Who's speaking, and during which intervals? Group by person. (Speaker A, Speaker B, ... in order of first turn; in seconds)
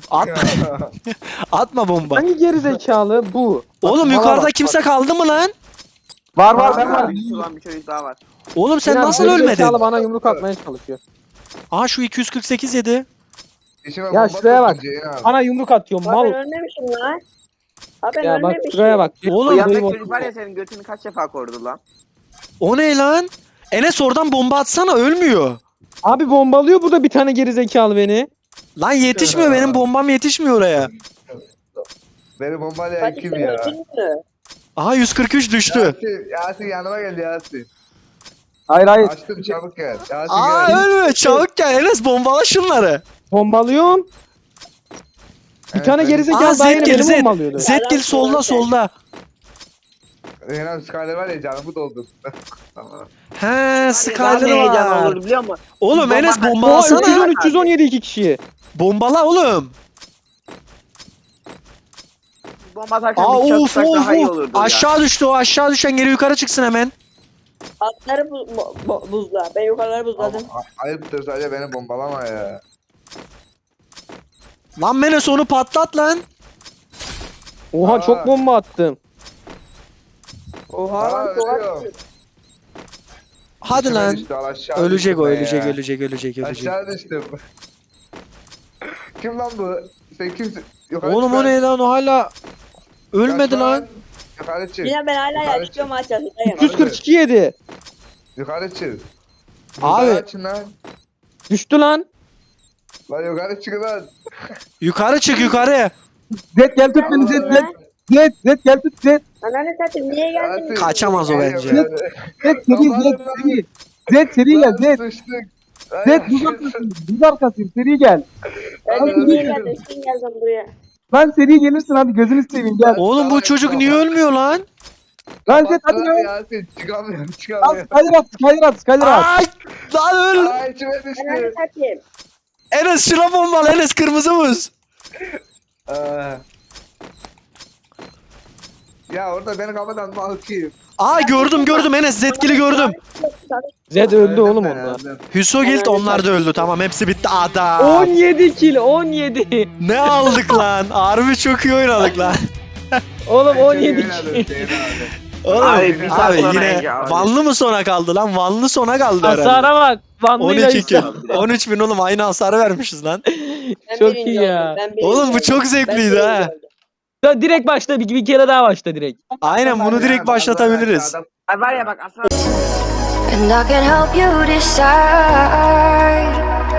Speaker A: 0.1-2.2, 3.8-5.5, 8.6-9.8, 11.7-13.1, 19.3-19.7, 22.6-25.6, 28.8-30.9, 34.8-35.9, 40.3-43.0, 46.3-48.9, 53.4-55.2, 55.8-57.3, 58.8-59.8, 63.2-66.9, 74.8-76.2, 83.6-86.7, 91.0-92.3, 93.1-93.8, 99.8-100.2, 104.8-105.9, 110.8-111.8, 123.0-124.7, 129.0-130.6, 132.7-134.7, 141.0-143.0, 145.3-148.1, 149.8-152.4, 155.4-159.7, 160.4-163.2, 165.0-166.5, 169.4-171.2
Speaker B: 0.2-0.9, 3.8-4.8, 9.0-10.4, 13.8-15.3, 29.1-29.9, 32.4-33.7, 35.7-37.7, 39.0-40.9, 45.7-46.6, 50.4-52.1, 52.8-53.1, 70.2-72.6, 77.8-78.3, 81.0-81.9, 83.7-85.8, 86.4-87.3, 89.2-91.6, 93.2-95.9, 96.6-97.0, 98.4-99.0, 99.8-100.7, 103.1-104.1, 105.3-105.6, 107.0-107.7, 110.4-113.6, 114.5-116.8, 118.9-119.8, 122.9-124.1, 125.5-128.1, 130.3-131.6, 135.9-136.4, 139.1-140.7, 144.1-145.2, 153.5-156.4, 169.5-171.9
Speaker C: 2.1-4.1, 6.5-7.1, 8.8-11.0, 14.1-16.4, 18.2-20.3, 26.0-28.3, 40.7-41.4, 43.3-44.1, 45.8-47.7, 56.6-58.4, 77.7-79.0, 96.5-97.5, 101.5-102.1, 143.9-145.0, 147.8-150.6, 153.3-154.7, 159.2-161.4, 163.3-164.8, 167.2-169.2
Speaker D: 6.4-7.5, 38.7-39.1, 106.5-109.2, 111.6-111.9, 112.4-115.0, 116.0-118.2, 119.1-119.5, 121.1-123.0, 125.5-126.3, 127.6-129.3
Speaker E: 6.5-8.2, 19.4-21.8, 53.8-57.7, 62.6-64.9, 155.6-157.3, 160.8-161.5, 171.5-172.3
Speaker F: 16.1-17.2, 18.0-19.1, 33.0-34.2, 46.6-48.7, 67.8-70.5, 80.7-81.9, 94.8-96.7, 106.9-107.7, 109.4-111.4, 118.9-120.7, 131.2-132.0, 141.1-144.2, 145.6-146.8, 163.9-166.7
Speaker G: 173.3-176.4